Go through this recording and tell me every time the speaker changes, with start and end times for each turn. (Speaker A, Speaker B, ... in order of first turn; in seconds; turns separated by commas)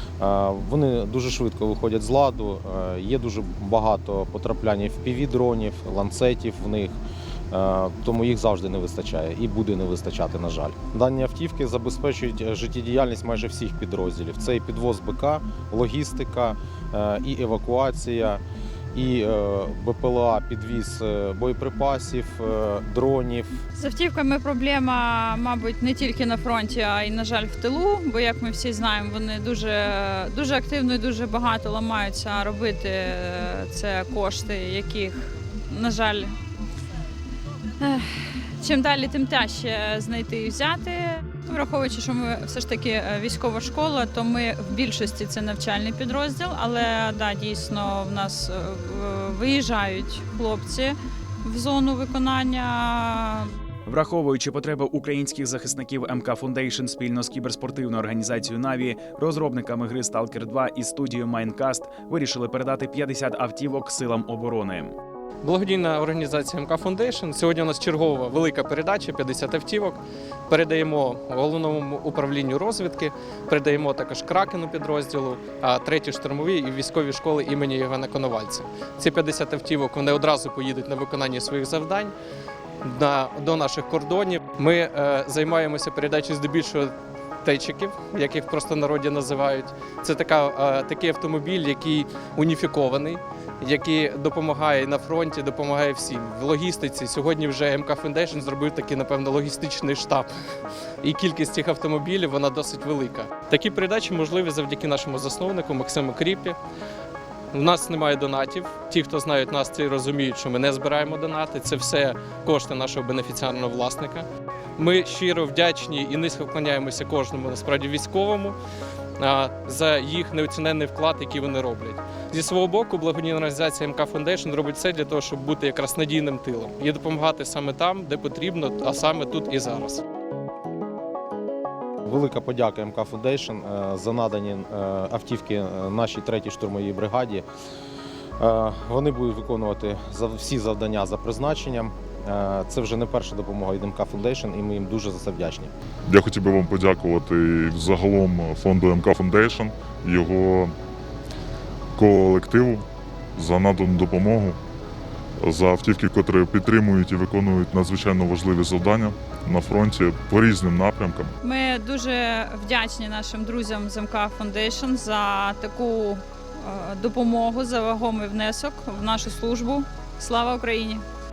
Speaker A: 0.2-6.9, Speaker A: 7.5-18.4, Speaker A: 18.9-23.6, Speaker B: 23.8-36.3, Speaker B: 37.8-53.5, Speaker C: 53.9-64.9, Speaker D: 65.4-82.1, Speaker D: 82.8-100.3, Speaker D: 101.0-106.6, Speaker D: 107.5-114.2, Speaker D: 114.8-118.6, Speaker D: 119.2-130.0, Speaker A: 132.0-137.4, Speaker A: 138.4-145.7, Speaker E: 146.1-150.8, Speaker E: 151.9-152.8, Speaker E: 153.3-154.6, Speaker E: 155.4-161.3, Speaker B: 161.4-171.0